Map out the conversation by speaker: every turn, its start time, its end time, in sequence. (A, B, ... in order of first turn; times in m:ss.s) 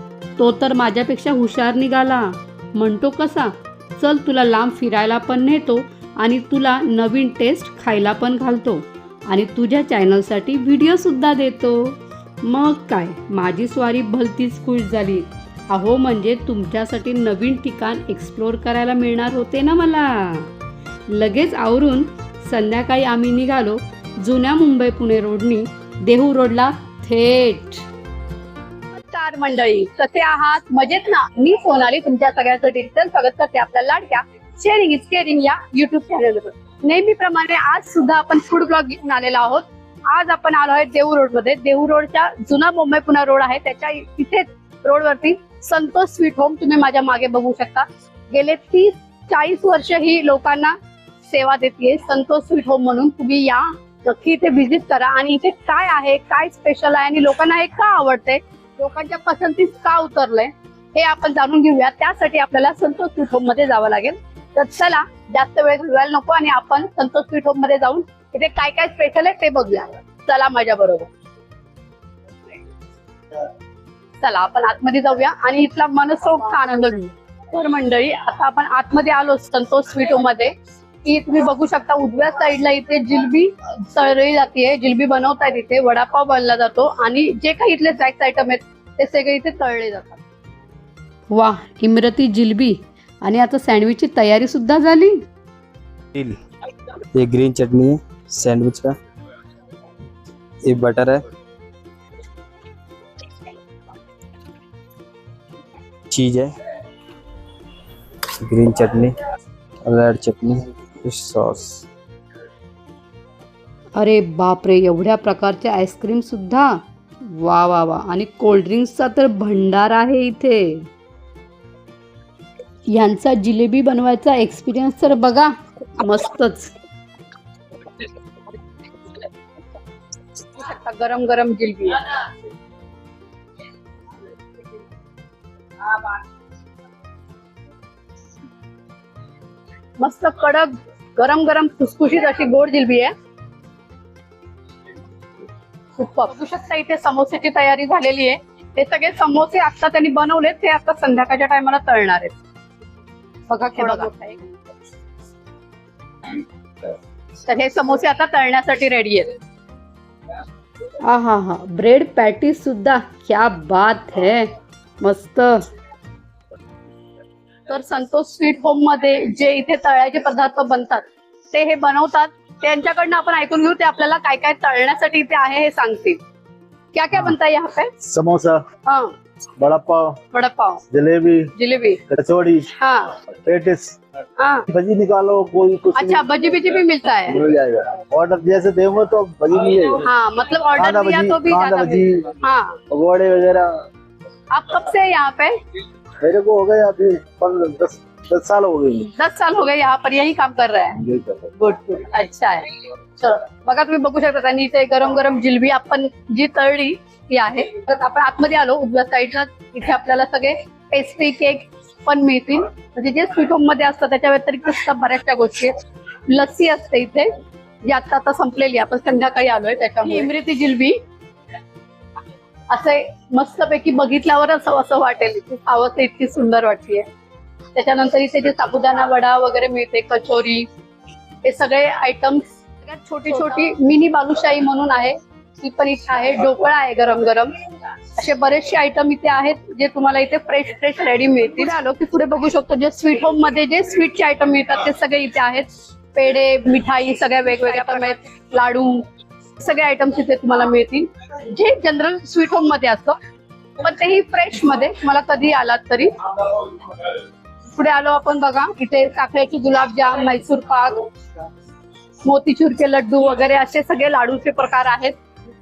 0:00.4-0:20.5 A
0:21.1-0:27.8 A
0:29.0-0:50.8 B
0:51.3-1:11.1 B
1:14.2-1:20.5 B
1:21.0-1:30.2 B
1:31.3-1:35.2 A
1:37.2-1:39.0 C
1:40.6-1:41.2 C
1:46.1-1:46.5 C
1:48.4-1:49.1 C
1:49.8-1:51.8 C
1:54.0-1:56.8 A
1:57.3-2:00.9 A
2:02.9-2:06.7 A
2:10.6-2:12.2 B
2:20.0-2:23.1 B
2:26.0-2:32.3 B
2:33.5-2:34.4 B
2:37.5-2:39.3 B
2:41.1-2:44.5 A
2:45.0-2:45.6 A
2:47.7-2:56.2 B
2:56.9-2:57.9 B
2:58.0-2:58.6 D
2:59.6-3:00.2 D
3:00.3-3:00.8 B
3:00.9-3:01.5 D
3:01.6-3:02.0 B
3:02.1-3:02.7 D
3:02.8-3:03.1 B
3:03.4-3:04.0 D
3:04.4-3:04.6 B
3:04.7-3:06.4 D
3:06.0-3:07.4 B
3:07.3-3:10.0 D
3:10.0-3:12.8 B
3:10.8-3:12.3 D
3:12.9-3:13.7 D
3:14.5-3:15.5 B
3:16.2-3:19.1 D
3:19.2-3:21.0 B
3:21.0-3:21.5 D
3:21.6-3:22.7 B
3:23.2-3:35.7 B
3:36.3-3:37.3 B
3:37.8-3:41.0 B
3:42.7-3:47.1 B
3:47.8-3:50.7 B
3:51.4-3:57.5 B
3:58.2-4:09.0 B
4:09.6-4:13.2 B
4:13.8-4:16.7 B
4:17.7-4:21.1 B
4:22.2-4:25.2 B